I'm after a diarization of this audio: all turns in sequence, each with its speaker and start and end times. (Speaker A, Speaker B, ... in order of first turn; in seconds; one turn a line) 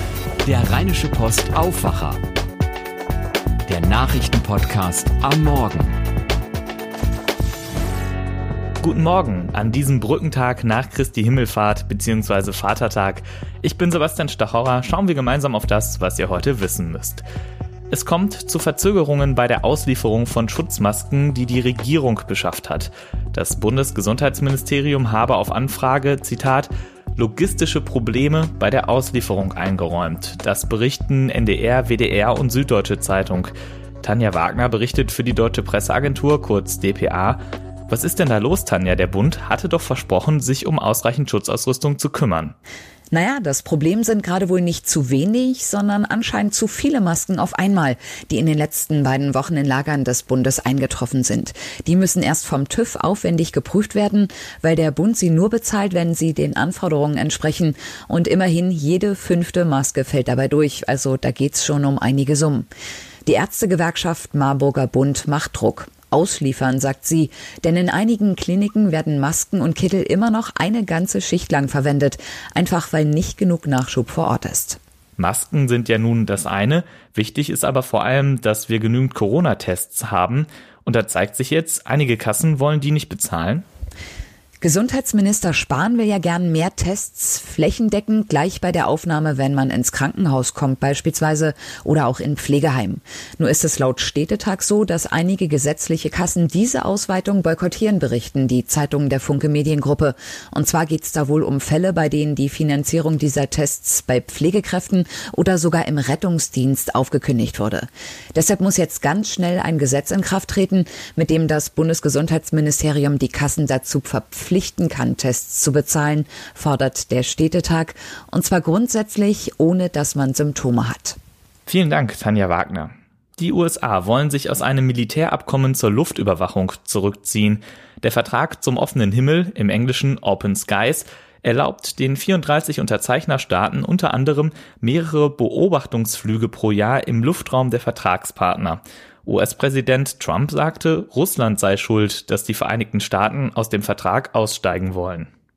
Speaker A: 0.4-2.2
Speaker A: 3.7-5.9
Speaker B: 8.8-17.2
Speaker B: 17.9-42.5
Speaker C: 43.1-62.7
Speaker C: 63.2-74.8
Speaker B: 75.2-83.7
Speaker C: 84.6-121.2
Speaker B: 121.7-145.3